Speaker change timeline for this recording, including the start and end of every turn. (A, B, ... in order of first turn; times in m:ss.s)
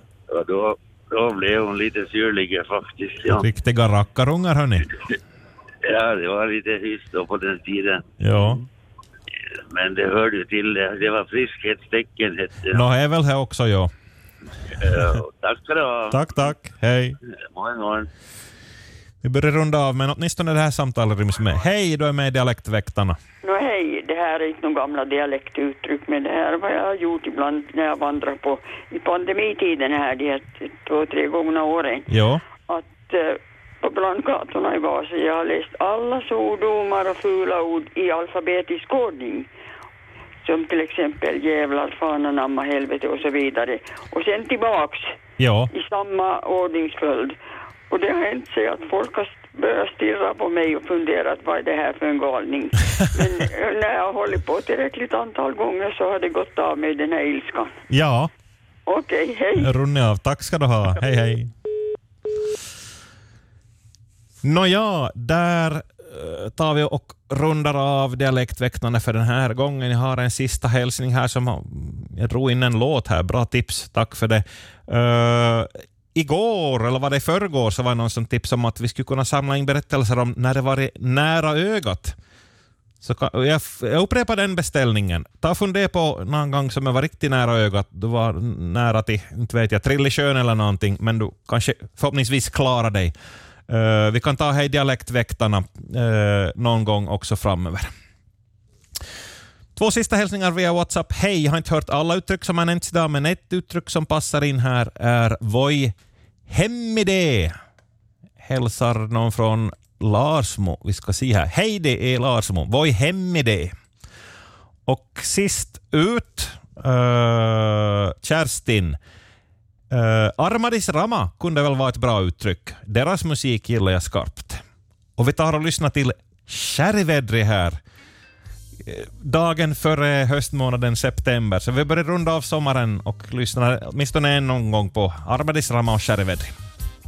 0:00.3-0:03.5 A
0:03.3-0:04.9 B
0:05.8-0:08.0 A
0:08.2-0:08.6 B
0:09.7-0:12.8 A
0:12.7-0:13.9 B
0:14.8-0:16.5 A
0:16.1-0:17.2 B
0:17.3-0:18.1 A
0:19.2-0:23.2 B
0:23.4-0:32.0 C
0:32.1-0:32.4 B
0:32.7-0:39.5 C
0:40.4-0:45.0 C
0:45.4-0:45.7 B
0:45.7-0:47.3 C
0:47.9-0:57.7 C
0:57.9-0:58.3 B
0:58.9-0:59.7 C
0:59.6-1:01.5 B
1:04.4-1:22.1 B
1:23.0-1:33.1 B
1:33.7-1:37.9 B
1:39.8-1:45.9 B
1:46.5-1:47.5 B
1:48.4-1:53.7 B
1:54.9-1:59.0 B
1:59.9-2:04.6 B
2:05.2-2:07.8 B
2:08.8-2:16.5 B